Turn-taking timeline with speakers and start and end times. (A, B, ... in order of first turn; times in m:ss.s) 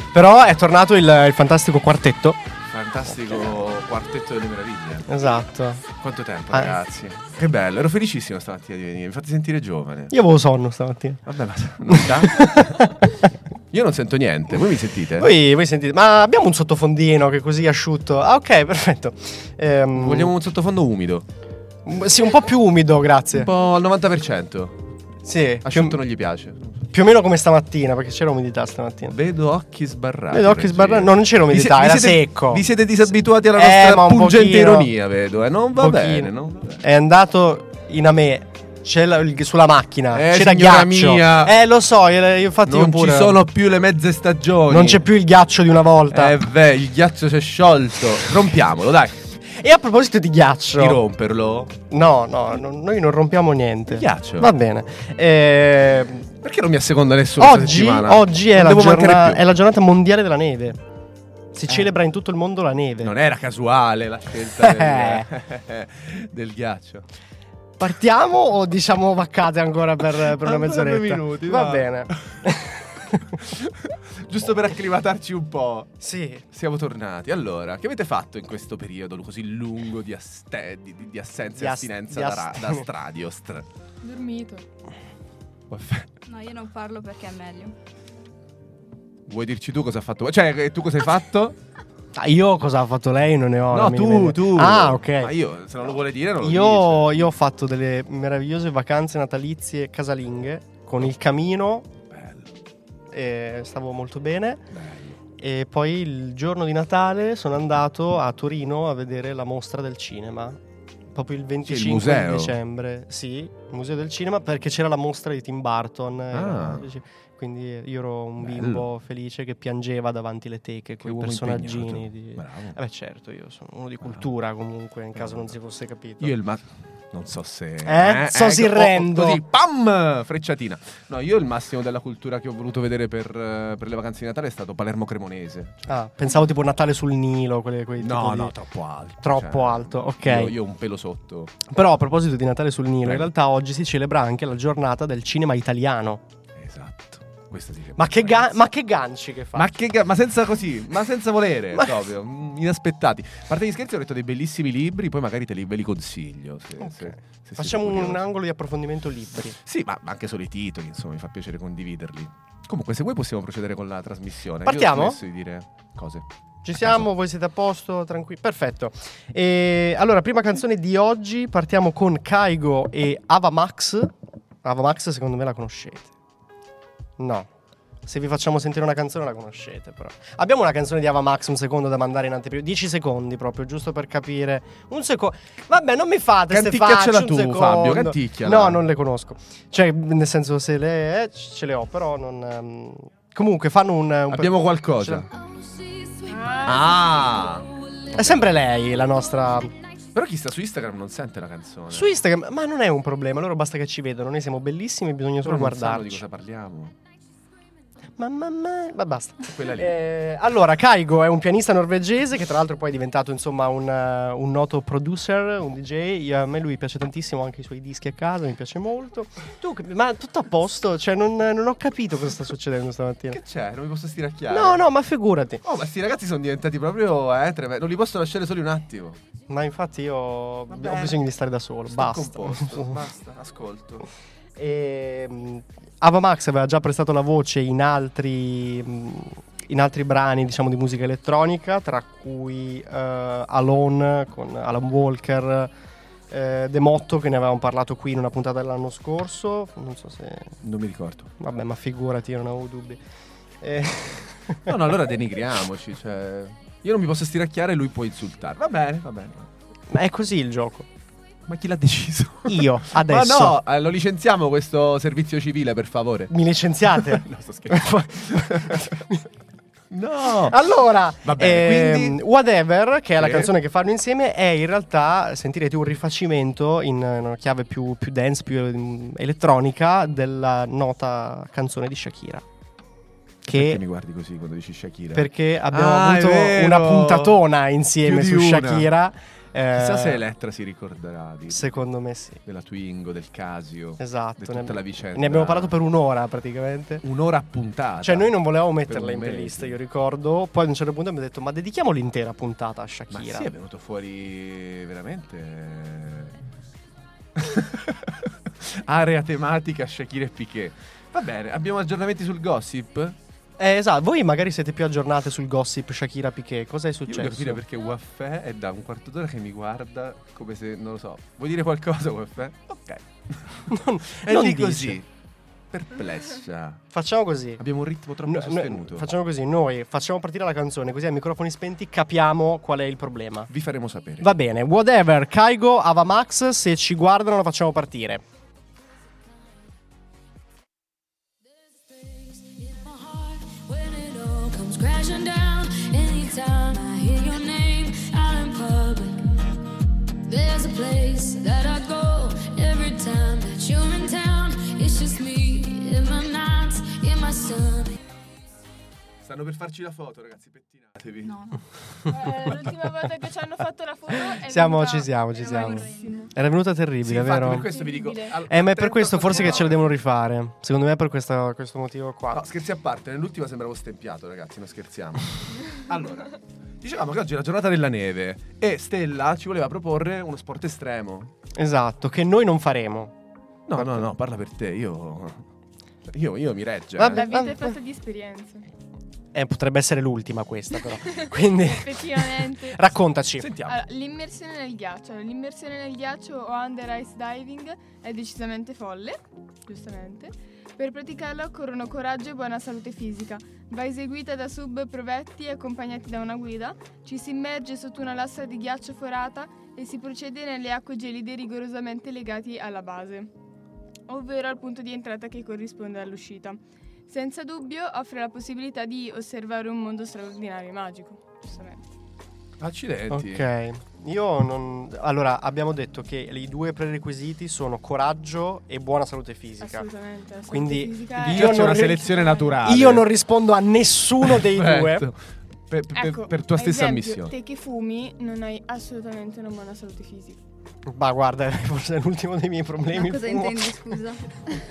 0:00.1-0:02.4 A
0:02.7-0:05.1 B
0:05.1-0:05.8 A
0:06.0-0:10.2 B
0:06.5-0:06.8 A
0:10.1-0:11.2 A
0:11.2-0:12.9 B
0:11.9-0:13.3 A
0:13.7-0:15.3 B
0:15.2-0:20.3 A
0:19.9-0:21.3 B
0:21.9-0:23.5 A
0:23.3-0:24.9 B
0:25.2-0:26.0 A
0:25.6-0:26.9 B
0:26.9-0:29.2 A
0:29.1-0:36.8 B
0:30.3-0:32.6 A
0:33.5-0:34.9 A
0:35.8-0:43.4 A
0:40.1-0:41.6 B
0:42.7-0:45.1 B
0:44.7-0:46.4 A
0:46.1-0:49.3 B
0:49.4-0:51.0 A
0:50.8-0:51.8 B
0:51.9-0:56.3 A
0:53.9-0:54.5 B
0:56.4-0:59.4 B
0:57.4-1:00.8 A
1:01.5-1:03.1 A
1:01.7-1:01.9 B
1:03.0-1:07.1 B
1:04.6-1:05.3 A
1:07.8-1:13.4 A
1:10.1-1:12.5 B
1:13.1-1:16.0 B
1:16.0-1:16.4 A
1:16.5-1:23.7 B
1:21.6-1:22.9 A
1:24.0-1:24.7 C
1:25.7-1:26.1 B
1:26.3-1:27.8 D
1:29.3-1:31.6 B
1:32.2-1:35.3 A
1:33.7-1:37.2 B
1:36.4-1:41.9 A
1:42.1-1:42.5 B
1:43.1-1:44.7 A
1:44.7-1:45.2 B
1:45.4-1:50.6 A
1:51.2-2:06.3 A
1:51.6-1:52.6 B
1:56.3-1:56.9 B
1:58.4-1:58.9 B
2:01.0-2:02.8 B
2:05.2-2:05.5 B
2:06.2-2:16.0 B
2:07.8-2:09.4 A
2:15.9-2:18.6 A
2:18.0-2:21.6 B
2:19.2-2:20.5 A
2:21.7-2:26.2 A
2:23.0-2:23.3 B
2:26.6-2:28.6 B
2:28.0-2:29.8 A
2:29.5-2:38.2 B
2:36.8-2:39.6 A
2:39.6-2:46.3 B
2:44.6-2:45.2 A
2:46.6-2:54.1 A
2:46.8-2:47.1 B
2:54.6-2:56.1 A
2:57.2-2:57.5 A
2:58.0-3:15.3 A
3:06.5-3:08.8 B
3:14.3-3:15.3 B
3:15.3-3:19.2 E
3:16.2-3:17.0 C
3:16.6-3:17.7 B
3:18.2-3:19.7 A
3:18.2-3:18.6 B
3:20.1-3:22.2 B
3:21.9-3:26.2 A
3:25.4-3:27.0 B
3:28.2-3:43.4 A
3:29.4-3:30.0 B
3:43.3-3:44.9 B
3:44.5-3:45.6 A
3:45.6-3:49.2 B
3:49.5-3:53.0 A
3:50.7-3:51.3 B
3:51.9-3:54.1 B
3:54.6-4:05.7 A
4:06.3-4:10.6 A
4:10.6-4:11.3 B
4:11.4-4:13.0 A
4:13.6-4:14.7 A
4:14.7-4:19.5 B
4:19.9-4:20.9 A
4:21.4-4:26.3 B
4:22.5-4:23.6 A
4:26.3-4:29.3 A
4:26.9-4:29.0 B
4:29.9-4:30.6 B
4:30.4-4:42.4 A
4:31.2-4:32.2 B
4:33.2-4:33.5 B
4:43.4-4:43.8 A
4:43.5-4:47.4 B
4:45.1-4:50.2 A
4:48.0-4:48.9 B
4:49.7-4:51.8 B
4:51.5-4:52.4 A
4:52.4-4:55.8 B
4:54.0-4:57.0 A
4:57.0-4:59.8 B
4:58.0-5:03.5 A
5:03.1-5:06.4 B
5:07.4-5:13.2 B
5:13.6-5:17.6 A
5:17.1-5:25.1 B
5:23.7-5:25.0 A
5:25.7-5:26.8 B
5:26.9-5:27.6 A
5:27.6-5:29.1 B
5:28.2-5:33.5 A
5:33.5-5:34.4 B
5:34.2-5:38.2 A
5:41.5-5:49.2 E
5:50.3-5:58.0 E
5:59.2-6:01.3 B
6:01.2-6:01.6 D
6:02.1-6:06.3 C
6:04.4-6:07.7 A
6:05.4-6:06.3 D
6:07.0-6:09.9 B
6:07.6-6:08.4 C
6:08.5-6:12.4 A
6:09.4-6:09.7 C
6:12.3-6:21.3 B
6:21.6-6:23.1 A
6:23.7-6:25.5 B
6:23.8-6:24.0 A
6:26.0-6:27.3 B
6:27.0-6:27.8 A
6:27.1-6:28.7 C
6:29.3-6:33.5 A
6:31.2-6:32.9 C
6:33.4-6:33.8 B
6:33.7-6:53.3 C
6:54.1-7:01.9 C
7:02.6-7:03.5 B
7:03.1-7:09.9 A
7:09.6-7:12.6 C
7:10.5-7:12.1 A
7:11.3-7:13.1 B
7:12.6-7:15.1 A
7:14.2-7:17.3 B
7:15.9-7:20.4 C
7:20.9-7:23.8 A
7:22.9-7:24.4 D